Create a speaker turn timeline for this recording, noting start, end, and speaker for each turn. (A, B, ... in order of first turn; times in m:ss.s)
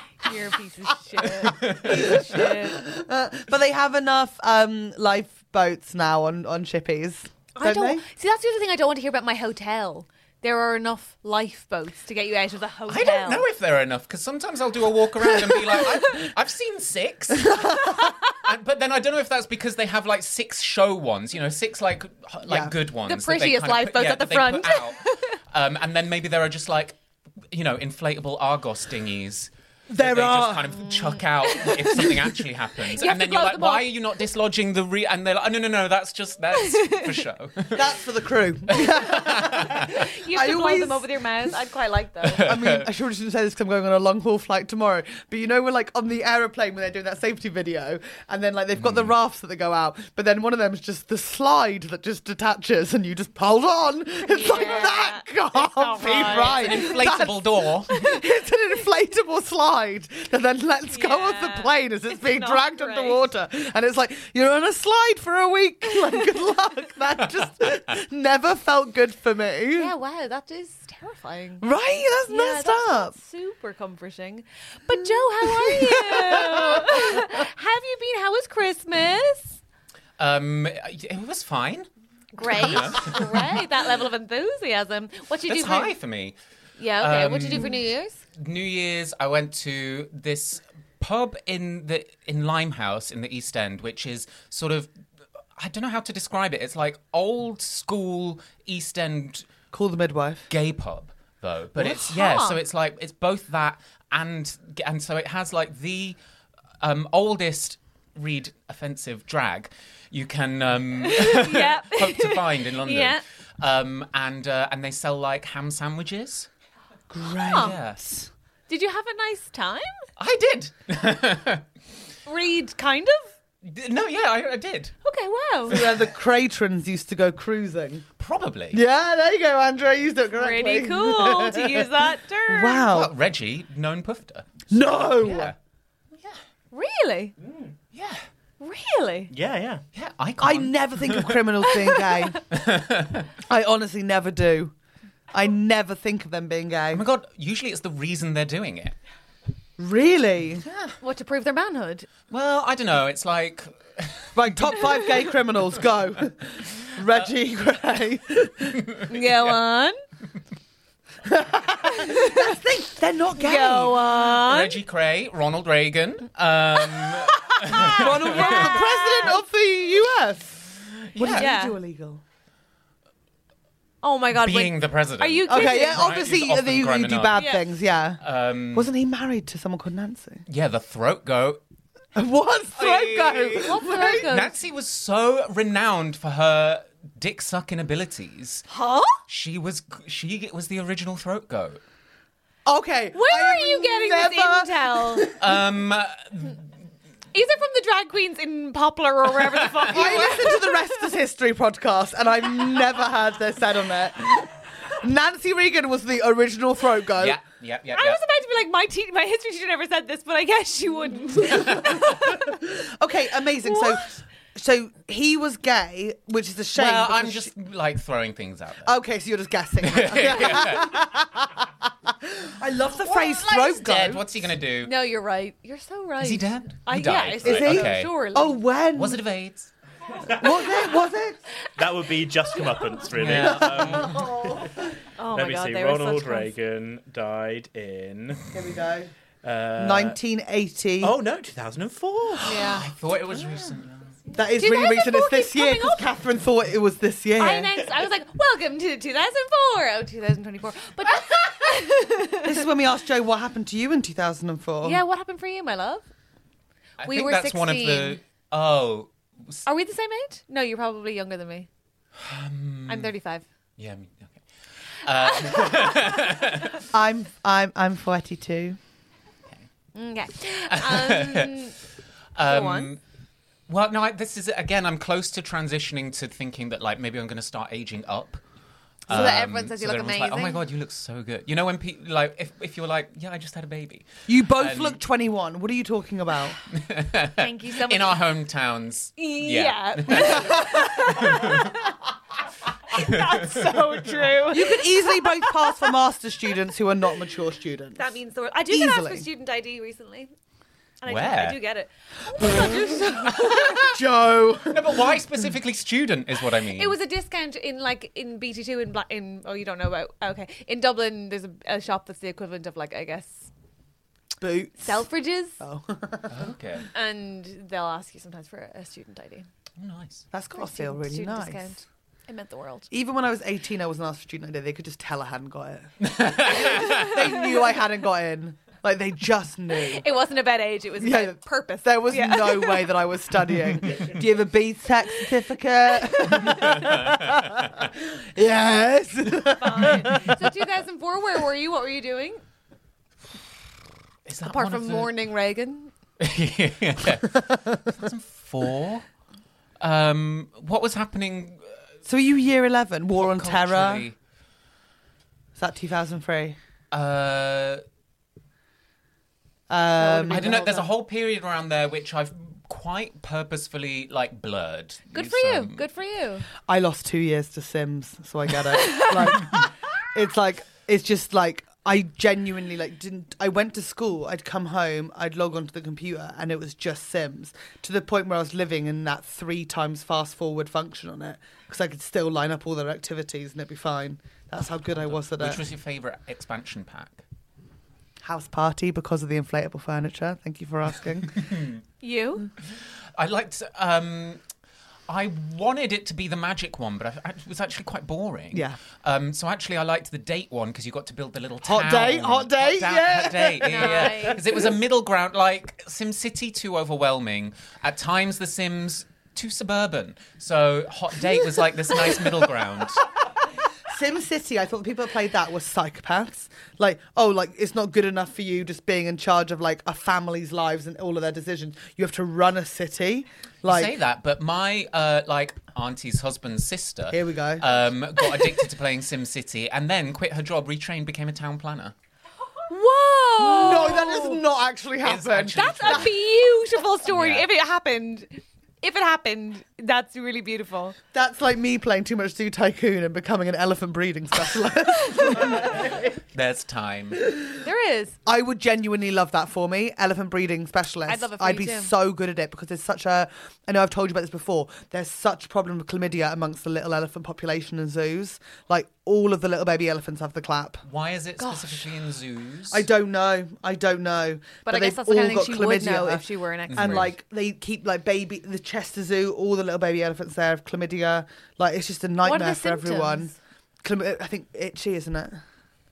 0:00.2-0:02.8 A
0:01.2-0:08.0 B
0:01.6-0:02.2 C
0:07.6-0:13.4 A
0:12.9-0:27.0 C
0:17.4-0:18.0 B
0:22.4-0:22.8 B
0:23.1-0:25.2 A
0:27.5-0:38.0 C
0:29.9-0:30.8 B
0:30.9-0:32.3 A
0:32.9-0:33.9 A
0:36.7-0:37.1 A
0:37.7-0:41.1 B
0:38.7-0:39.9 C
0:39.8-0:42.4 A
0:42.2-0:42.9 C
0:42.4-1:09.9 B
0:48.8-0:49.1 C
0:54.2-0:57.0 A
0:56.4-0:57.9 C
0:57.9-0:58.2 A
1:00.9-1:03.2 A
1:09.8-1:11.6 A
1:11.6-1:13.1 B
1:12.3-1:19.6 A
1:15.4-1:17.3 B
1:20.2-1:21.9 C
1:22.4-1:25.9 A
1:22.4-1:23.5 C
1:25.5-1:26.4 C
1:26.8-1:28.2 A
1:27.0-1:27.8 C
1:28.4-1:34.9 C
1:35.6-1:39.5 C
1:39.7-1:40.5 B
1:40.5-1:46.2 C
1:41.8-1:42.6 A
1:46.8-1:56.5 C
1:51.0-1:53.2 A
1:57.1-1:58.2 B
1:57.5-1:57.8 A
1:57.5-1:58.1 C
1:58.7-2:00.0 A
2:00.2-2:01.6 C
2:02.3-2:03.3 A
2:03.6-2:05.0 C
2:05.0-2:05.8 A
2:05.7-2:08.0 B
2:08.2-2:08.8 C
2:08.7-2:13.1 B
2:10.4-2:12.9 A
2:12.9-2:15.6 C
2:14.7-2:15.5 B
2:16.7-2:17.3 A
2:17.4-2:17.7 D
2:17.9-2:18.2 C
2:18.6-2:19.3 A
2:19.3-2:19.8 D
2:19.9-2:21.4 C
2:20.4-2:22.4 B
2:21.9-2:22.3 A
2:22.5-2:23.3 C
2:23.4-2:24.7 B
2:25.3-2:27.1 B
2:26.9-2:29.0 C
2:29.8-2:30.7 B
2:30.7-2:31.0 C
2:31.0-2:32.1 A
2:32.3-2:34.7 C
2:34.4-2:38.9 B
2:39.1-2:40.0 A
2:41.2-2:44.0 B
2:41.9-2:42.6 A
2:43.4-2:44.8 A
2:44.2-2:48.8 C
2:47.6-2:52.2 B
2:47.7-2:49.4 A
2:51.1-2:51.5 C
2:51.3-2:51.8 A
2:54.0-2:56.0 A
2:54.3-2:57.6 C
2:55.5-2:58.2 B
2:57.4-2:57.6 A
2:58.2-2:58.9 C
2:58.7-3:00.5 B
3:00.5-3:01.6 C
3:02.2-3:04.3 B
3:02.8-3:08.7 C
3:03.6-3:04.5 A
3:08.7-3:09.2 A
3:09.3-3:11.8 C
3:12.6-3:15.6 B
3:13.2-3:15.2 A
3:15.4-3:16.6 C
3:17.3-3:20.8 A
3:19.6-3:20.4 C
3:19.9-3:27.4 B
3:27.2-3:28.2 C
3:28.0-3:32.6 A
3:31.5-3:37.5 B
3:33.7-3:34.0 A
3:36.8-3:38.9 C
3:38.8-3:44.5 B
3:39.8-3:41.0 C
3:43.0-3:44.9 C
3:44.8-3:48.6 A
3:46.2-3:48.1 C
3:47.4-3:49.2 B
3:48.9-3:49.7 C
3:50.3-3:51.4 B
3:51.8-3:54.2 D
3:53.1-3:54.3 C
3:53.3-3:54.9 B
3:55.2-3:56.5 A
3:55.3-3:58.5 D
3:58.5-3:59.1 B
3:59.4-4:00.2 D
3:59.8-4:01.2 B
4:01.0-4:02.4 D
4:02.4-4:02.8 A
4:02.6-4:02.8 B
4:02.7-4:04.2 C
4:04.3-4:07.8 B
4:04.6-4:06.1 A
4:07.4-4:12.6 A
4:12.4-4:15.0 B
4:14.8-4:16.0 A
4:17.0-4:19.6 C
4:17.1-4:18.2 A
4:19.6-4:21.7 A
4:22.2-4:23.1 C
4:22.9-4:23.4 A
4:23.8-4:24.5 C
4:25.0-4:26.8 C
4:25.3-4:26.0 A
4:26.9-4:28.8 B
4:30.0-4:31.8 A
4:30.7-4:31.7 C
4:32.4-4:33.0 C
4:32.4-4:32.9 A
4:33.7-4:38.4 C
4:39.0-4:45.0 C
4:39.1-4:39.4 B
4:39.1-4:40.6 A
4:44.3-4:46.6 B
4:46.7-4:51.8 C
4:47.4-4:48.2 A
4:49.2-4:51.8 A
4:50.1-4:51.0 B
4:52.9-4:55.8 A
4:52.9-4:54.4 C
4:54.5-4:58.1 B
4:58.0-5:00.3 A
4:58.7-4:59.3 B
5:01.0-5:04.0 A
5:01.1-5:01.6 C
5:03.8-5:05.0 B
5:04.6-5:07.0 C
5:06.7-5:13.5 A
5:14.4-5:15.0 B
5:14.8-5:15.6 A
5:15.6-5:16.5 B
5:16.3-5:16.9 C
5:16.9-5:19.5 A
5:19.8-5:20.2 C
5:20.3-5:21.7 B
5:20.6-5:22.9 A
5:22.9-5:30.0 B
5:26.0-5:27.2 C
5:29.9-5:32.9 A
5:31.0-5:40.4 B
5:36.2-5:36.9 A
5:36.9-5:37.6 C
5:39.5-5:42.4 A
5:44.3-5:45.1 C
5:44.4-5:45.9 A
5:46.2-5:49.0 C
5:49.8-5:51.6 C
5:52.1-5:54.1 B
5:53.2-5:54.2 C
5:55.6-5:56.6 B
5:56.9-5:57.8 C
5:59.7-6:00.9 B
6:00.2-6:00.8 A
6:00.3-6:05.8 C
6:05.1-6:06.5 A
6:06.6-6:25.6 B
6:25.0-6:27.2 C
6:28.2-6:31.4 B
6:31.4-6:31.8 C
6:32.0-6:32.5 A
6:33.2-6:34.4 C
6:35.1-6:53.0 C
6:38.5-6:38.8 B
6:41.6-6:44.7 B
6:43.7-6:44.4 A
6:53.9-7:04.0 B
7:03.6-7:11.9 C
7:07.1-7:07.7 B
7:12.7-7:14.4 A
7:13.4-7:16.1 B
7:15.0-7:16.2 C
7:15.6-7:21.0 A
7:17.1-7:17.5 C
7:21.1-7:26.2 B
7:25.1-7:25.6 A
7:25.6-7:27.2 C
7:27.6-7:28.2 A
7:28.3-7:40.8 B
7:31.1-7:31.9 A
7:40.9-7:42.9 C
7:42.7-7:55.4 B
7:44.7-7:47.1 A
7:46.7-7:47.1 C
7:52.2-7:53.3 A